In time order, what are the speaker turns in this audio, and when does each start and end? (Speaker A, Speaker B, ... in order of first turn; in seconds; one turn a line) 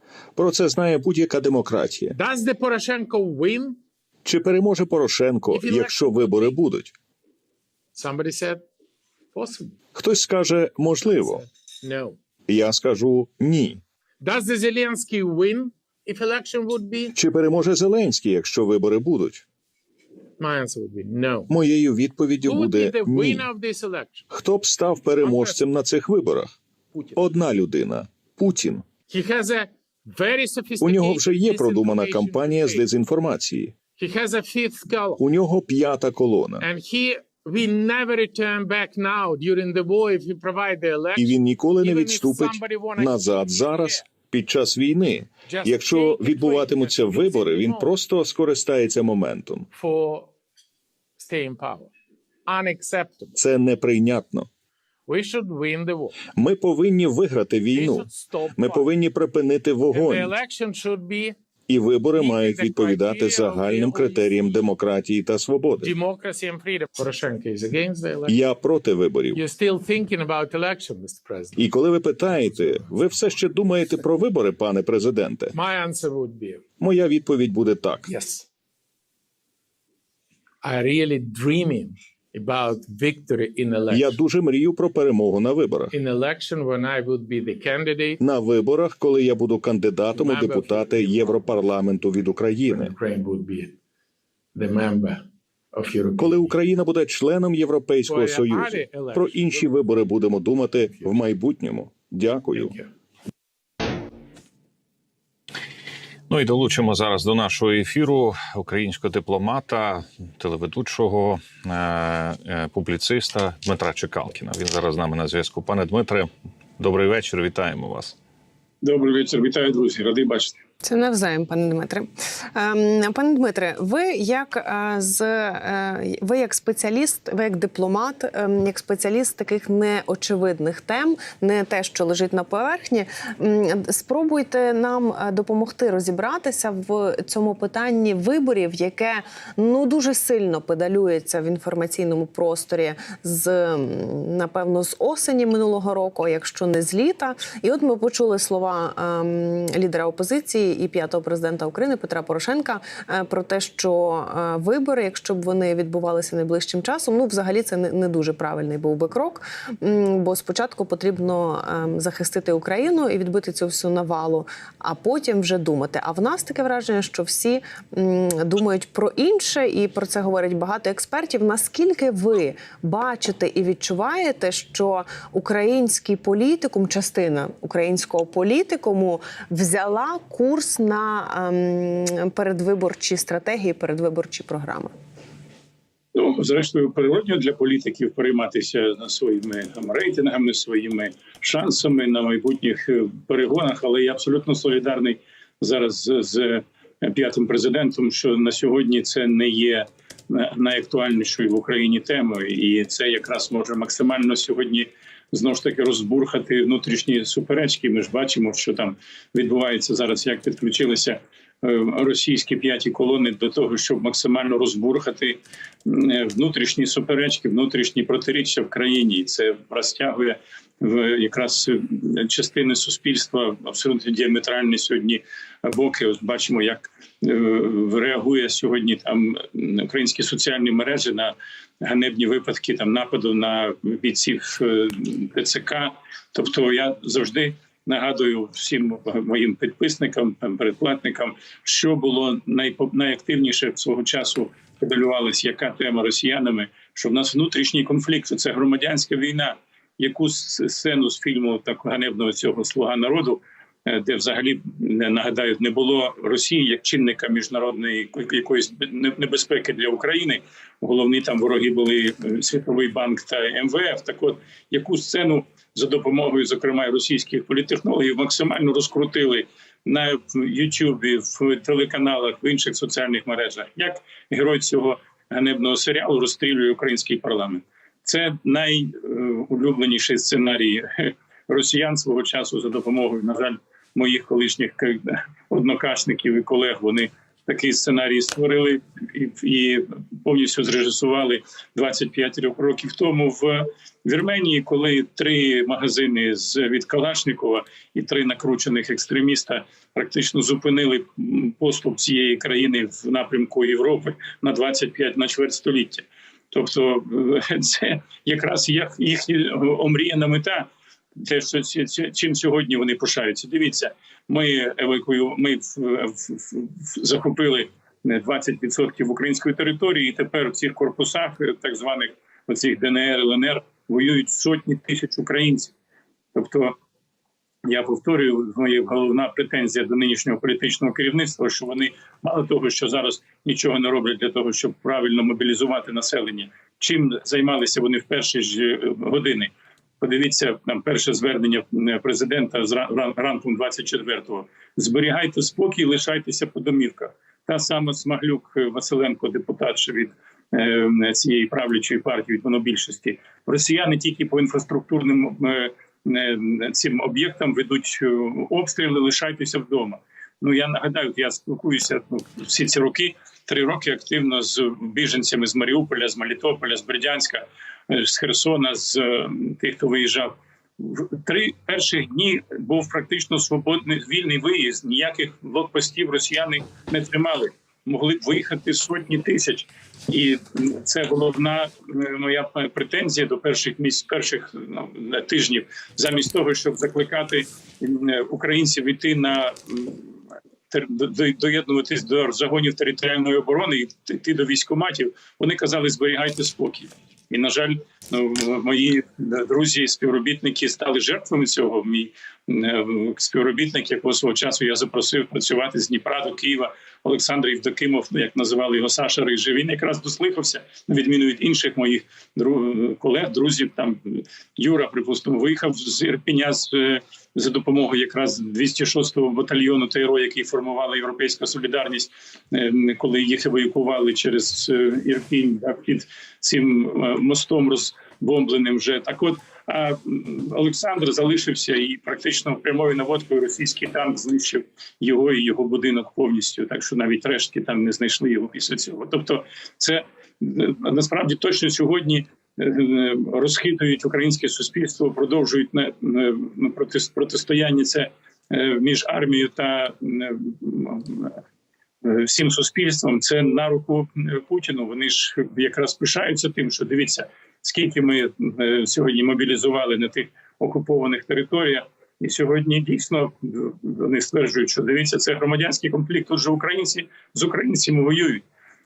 Speaker A: 0.4-2.2
Speaker B: 2.1-3.8
Speaker A: 4.2-6.9
Speaker B: 5.5-6.6
Speaker B: 8.0-8.6
Speaker B: 9.3-9.8
Speaker A: 9.9-11.4
Speaker B: 11.2-12.2
Speaker A: 12.5-13.8
Speaker B: 14.2-17.2
Speaker A: 17.1-19.4
Speaker B: 20.4-21.5
Speaker A: 21.5-23.5
Speaker B: 22.4-24.2
Speaker A: 24.3-26.5
Speaker B: 25.2-25.6
Speaker B: 26.9-27.3
Speaker A: 27.2-28.9
Speaker B: 29.1-32.9
Speaker A: 30.8-33.7
Speaker B: 34.0-35.2
Speaker A: 35.2-36.7
Speaker B: 36.6-44.1
Speaker A: 41.2-49.7
Speaker B: 45.5-48.0
Speaker B: 49.7-50.3
Speaker B: 51.2-51.9
Speaker B: 52.5-53.3
Speaker A: 53.4-54.5
Speaker B: 55.1-56.2
Speaker A: 56.3-60.3
Speaker B: 57.7-58.9
Speaker B: 59.9-61.4
Speaker A: 61.7-65.9
Speaker B: 62.1-64.7
Speaker B: 65.8-68.4
Speaker A: 68.3-69.4
Speaker B: 69.3-71.7
Speaker A: 71.6-75.5
Speaker B: 72.3-72.9
Speaker B: 75.5-76.6
Speaker A: 76.8-78.1
Speaker B: 78.1-78.5
Speaker B: 80.6-84.2
Speaker A: 83.9-85.9
Speaker B: 85.9-88.2
Speaker A: 88.2-92.9
Speaker B: 90.1-91.6
Speaker B: 92.7-93.8
Speaker B: 94.5-96.5
Speaker A: 96.2-102.8
Speaker B: 98.1-99.9
Speaker B: 100.8-101.1
Speaker B: 102.5-102.9
Speaker C: 106.3-118.2
Speaker D: 118.8-120.6
Speaker E: 120.8-184.9
Speaker D: 186.2-325.7
Speaker D: 326.4-326.8
Speaker D: 327.7-390.1
Speaker D: 390.7-451.4
Speaker D: 452.0-468.4